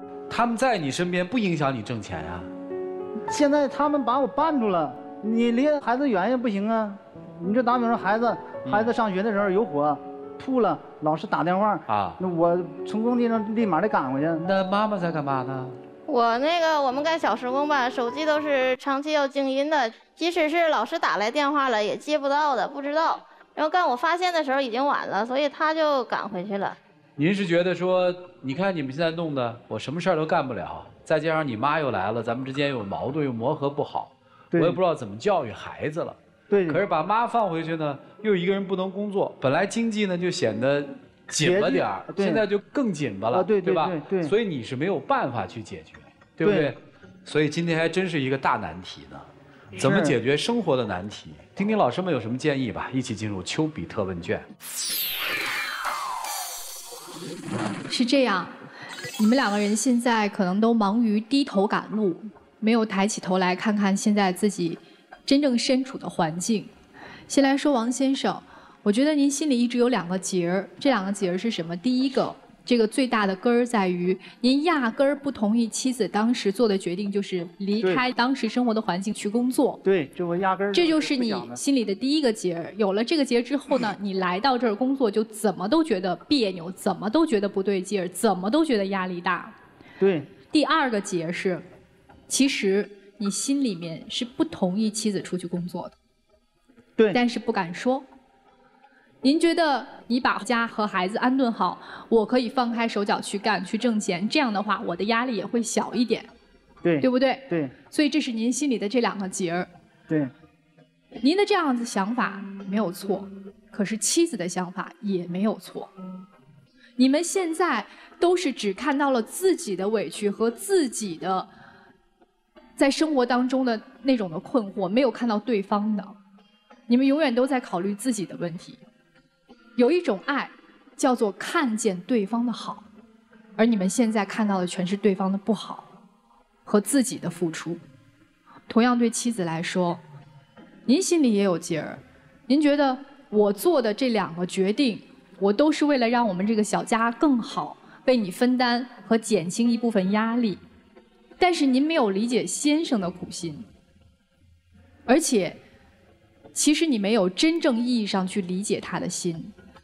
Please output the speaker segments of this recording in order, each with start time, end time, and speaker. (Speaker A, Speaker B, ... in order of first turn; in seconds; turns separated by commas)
Speaker A: 0.3-2.5, Speaker B: 3.3-14.4, Speaker A: 8.7-8.9, Speaker A: 11.9-12.2, Speaker A: 14.4-15.8, Speaker C: 16.1-26.8, Speaker A: 27.2-36.2, Speaker B: 34.5-34.8, Speaker B: 36.5-36.8, Speaker A: 36.7-54.5, Speaker B: 41.4-42.4, Speaker B: 43.3-44.3, Speaker B: 46.4-46.8, Speaker B: 49.8-50.2, Speaker D: 57.9-58.5, Speaker D: 59.2-66.7, Speaker D: 67.3-79.8, Speaker B: 79.8-81.6, Speaker D: 80.7-89.5, Speaker B: 90.0-90.3, Speaker D: 90.4-91.6, Speaker D: 92.3-95.9, Speaker D: 97.1-98.0, Speaker D: 99.2-106.3, Speaker B: 106.8-107.8, Speaker D: 107.0-109.7, Speaker D: 111.2-115.9, Speaker D: 117.0-121.5, Speaker D: 122.8-126.1, Speaker D: 126.9-128.8, Speaker D: 129.8-132.8, Speaker D: 133.6-135.9, Speaker D: 136.7-137.8, Speaker D: 138.7-140.0, Speaker D: 140.9-150.6, Speaker D: 151.4-153.7, Speaker D: 155.1-155.6, Speaker D: 156.5-159.5